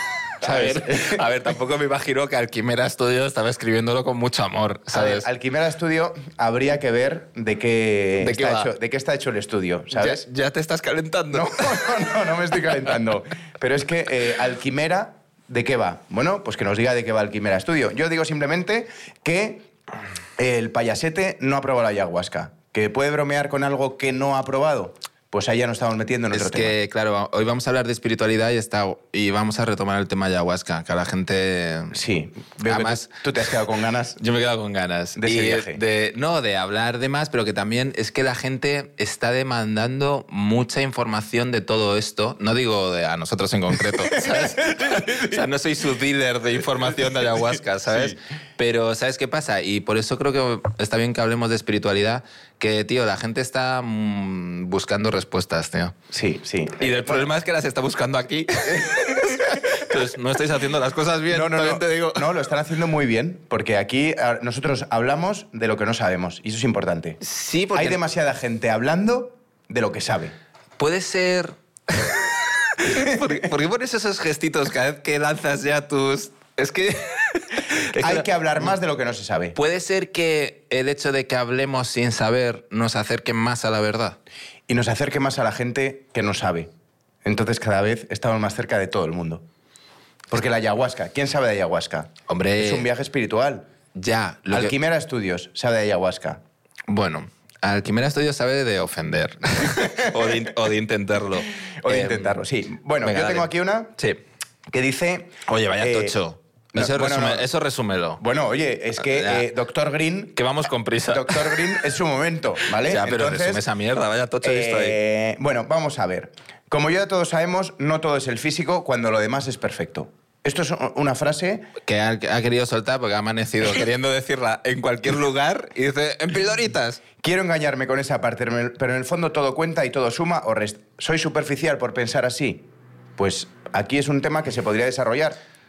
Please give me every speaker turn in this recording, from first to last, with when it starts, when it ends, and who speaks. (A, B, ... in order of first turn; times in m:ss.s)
0:00.4-0:01.2 A
0:00.4-0:05.3 B
0:04.9-0:10.2 A
0:08.2-0:08.7 B
0:09.9-0:12.1 B
0:11.3-0:19.7 A
0:20.4-0:26.7 A
0:26.3-0:32.0 B
0:31.9-0:34.2 A
0:32.6-0:33.5 B
0:34.2-0:55.9 B
0:35.2-0:35.8 A
0:44.0-0:45.4 A
0:56.1-0:57.3 A
0:56.8-1:02.3 B
0:58.7-0:59.9 A
1:01.3-1:07.2 A
1:07.2-1:08.0 B
1:07.7-1:10.3 A
1:10.8-1:18.7 B
1:12.9-1:13.2 A
1:17.9-1:19.6 A
1:19.6-1:24.2 B
1:24.7-1:26.7 A
1:27.2-1:29.4 A
1:30.3-1:33.7 A
1:32.3-1:32.9 B
1:33.9-1:34.7 B
1:34.5-1:36.4 A
1:36.9-1:42.4 B
1:39.6-1:40.4 A
1:41.8-1:43.9 A
1:43.0-1:44.2 B
1:44.7-1:46.1 A
1:45.5-1:48.2 B
1:46.7-1:47.5 A
1:48.2-1:50.4 A
1:49.0-1:49.4 B
1:50.3-1:51.8 B
1:51.1-1:53.6 A
1:52.8-1:55.0 B
1:54.4-2:01.7 A
2:01.8-2:07.0 B
2:07.2-2:12.6 A
2:13.2-2:15.4 A